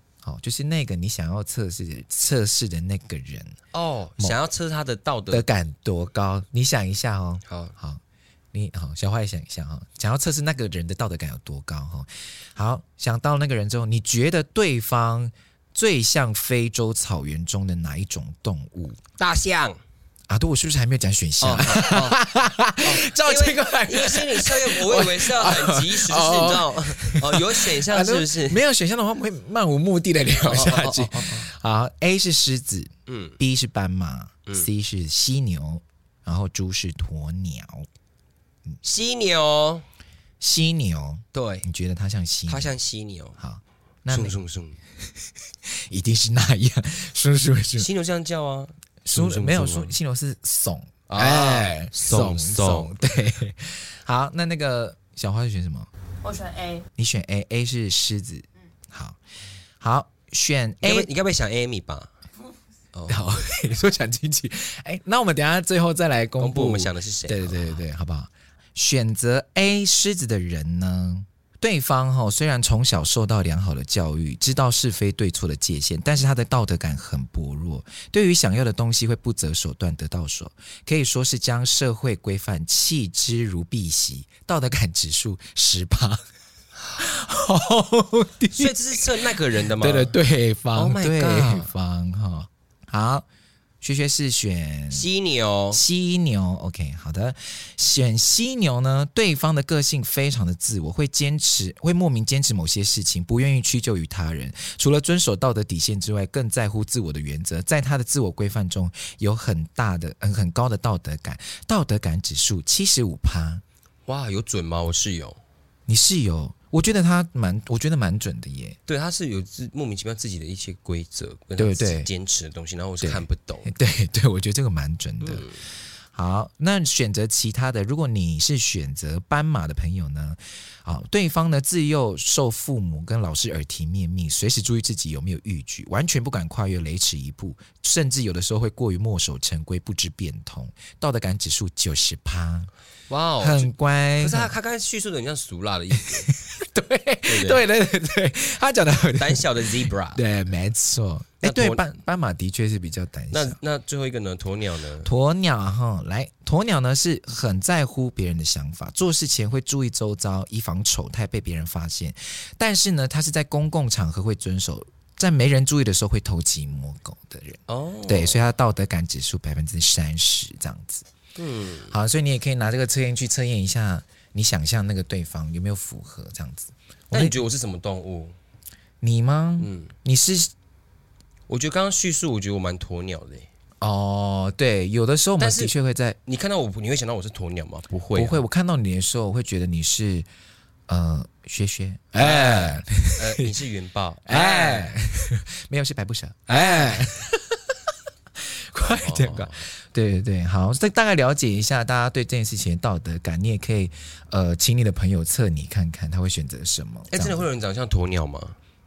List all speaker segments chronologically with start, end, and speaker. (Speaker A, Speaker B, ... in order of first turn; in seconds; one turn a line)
Speaker A: 0.2-3.6
Speaker B: 3.7-5.5
Speaker A: 5.3-8.0
Speaker B: 7.5-7.7
Speaker A: 8.5-19.0
Speaker B: 19.2-19.8
Speaker A: 20.3-37.9
Speaker B: 21.4-22.2
Speaker B: 22.8-28.6
Speaker B: 30.5-31.5
Speaker B: 33.1-33.4
Speaker B: 38.8-39.9
Speaker A: 40.4-42.8
Speaker B: 41.3-41.7
Speaker B: 42.5-43.4
Speaker A: 43.4-44.4
Speaker B: 44.1-44.8
Speaker A: 45.7-47.9
Speaker B: 47.8-49.9
Speaker A: 49.0-55.9
Speaker B: 51.1-52.9
Speaker B: 56.2-56.9
Speaker A: 57.0-59.2
Speaker A: 59.8-61.1
Speaker B: 60.8-62.1
Speaker B: 62.9-63.3
Speaker A: 63.1-86.2
Speaker B: 66.4-67.8
Speaker A: 87.0-93.2
Speaker B: 88.5-90.2
Speaker B: 90.8-91.7
Speaker A: 93.8-95.1
Speaker B: 94.9-95.8
Speaker A: 95.7-113.6
Speaker B: 114.1-115.4
Speaker A: 115.9-118.8
Speaker B: 118.9-123.7
Speaker A: 121.6-122.1
Speaker A: 123.0-125.5
Speaker B: 125.2-125.6
Speaker A: 126.1-142.7
Speaker B: 143.1-146.3
Speaker A: 143.4-144.5
Speaker A: 146.3-153.6
Speaker B: 147.3-147.6
Speaker B: 149.2-150.2
Speaker B: 151.4-151.9
Speaker B: 153.3-155.1
Speaker A: 155.0-171.1
Speaker B: 167.7-168.4
Speaker B: 171.4-171.9
Speaker A: 171.9-177.4
Speaker B: 177.1-178.4
Speaker A: 179.0-180.5
Speaker B: 179.6-179.9
Speaker B: 181.5-183.5
Speaker A: 183.8-186.2
Speaker B: 185.4-185.7
Speaker B: 186.3-188.4
Speaker A: 188.2-190.3
Speaker A: 190.9-193.5
Speaker B: 192.2-195.0
Speaker A: 194.3-197.8
Speaker B: 196.5-197.1
Speaker A: 198.4-207.5
Speaker B: 198.8-199.7
Speaker B: 207.1-208.6